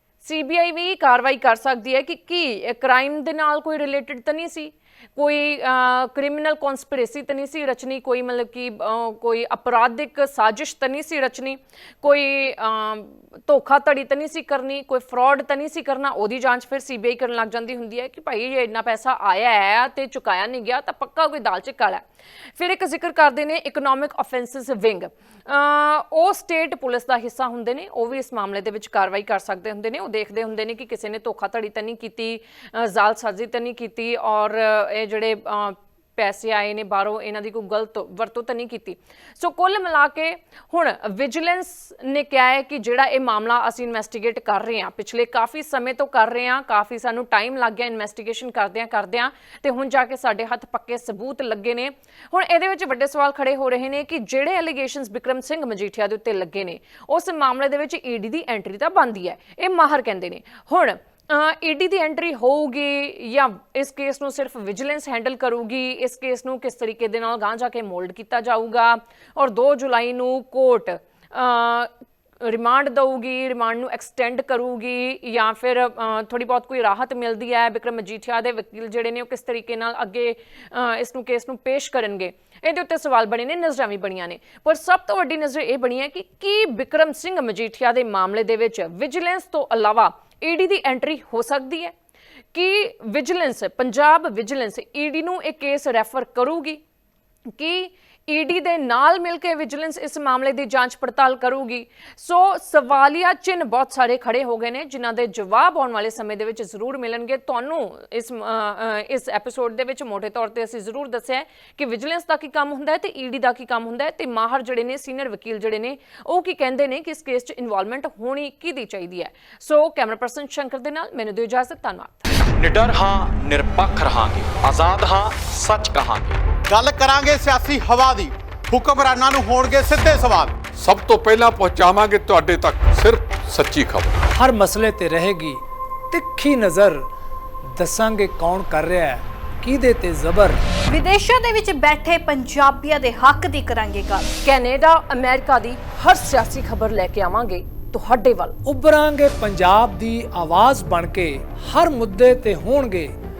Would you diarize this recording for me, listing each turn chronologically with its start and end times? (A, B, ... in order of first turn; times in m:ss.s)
0:00.2-0:22.0 A
0:22.6-1:11.9 A
1:12.4-1:31.9 A
1:32.5-1:36.8 A
1:37.6-2:02.2 A
2:02.6-2:06.4 B
2:06.7-2:10.6 C
2:10.7-2:14.1 D
2:14.3-2:15.6 E
2:16.1-2:17.0 E
2:17.7-2:20.6 E
2:20.9-2:24.3 F
2:24.4-2:28.5 A
2:28.6-2:33.1 E